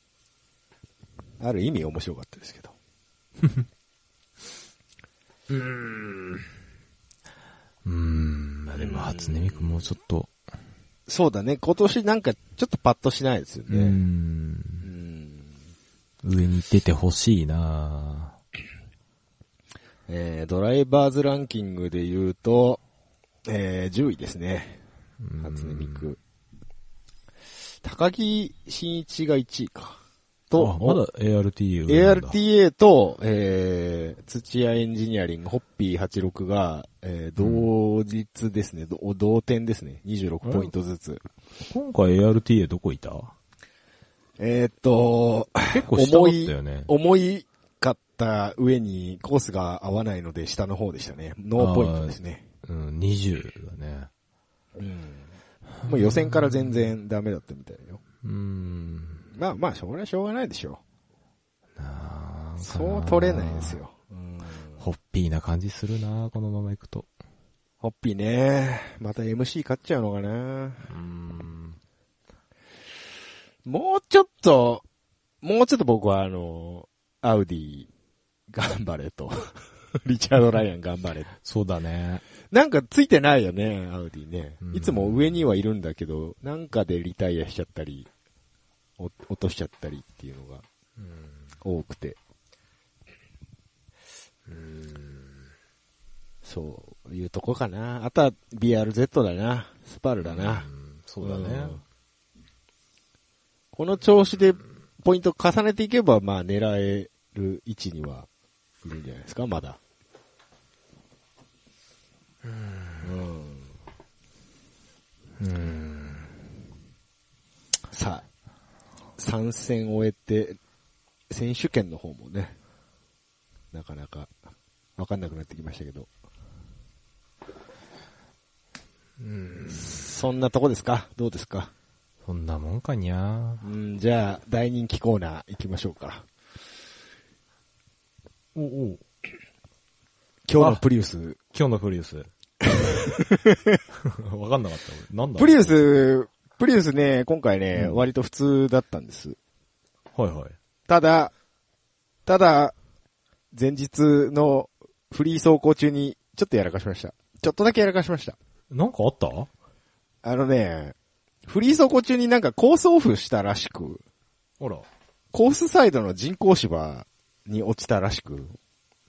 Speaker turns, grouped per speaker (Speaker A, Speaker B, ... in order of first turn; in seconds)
Speaker A: 1.4-2.7, 8.8-9.7, 11.1-14.0, 14.8-15.5, 20.1-22.8, 23.5-24.8, 25.4-26.2, 27.8-30.0, 30.5-31.0, 31.9-41.2, 44.4-52.4, 54.8-55.3, 55.9-58.0, 59.3-60.8, 62.6-64.8, 67.8-70.9, 73.7-74.8, 75.4-77.9, 78.5-81.3, 82.5-88.1, 89.0-90.7, 91.6-92.2, 96.4-100.7, 101.2-101.8, 103.7-108.3, 108.8-109.8, 113.0-113.7, 117.9-118.3, 119.2-120.6, 121.3-122.5, 123.7-124.3, 125.0-126.1, 129.7-131.7, 133.6-136.3, 140.5-141.4, 142.7-143.8, 145.4-149.4, 150.9-151.3, 152.3-152.8, 153.5-158.4, 160.2-161.0, 161.5-164.0, 165.3-168.6
Speaker B: 5.5-6.4, 7.8-10.3, 13.7-14.9, 16.2-18.4, 25.2-26.1, 30.6-32.4, 37.4-37.7, 40.4-40.7, 41.7-43.3, 45.7-46.9, 51.6-54.1, 55.8-56.9, 58.2-59.3, 61.8-63.8, 64.8-67.1, 70.9-71.8, 81.4-82.2, 84.6-85.4, 94.5-95.3, 100.2-101.8, 115.4-116.2, 129.2-130.0, 132.2-133.6, 138.6-139.0, 140.6-140.8, 141.5-142.3, 144.0-145.8, 147.8-148.0, 150.1-150.6, 158.7-159.5, 164.6-164.9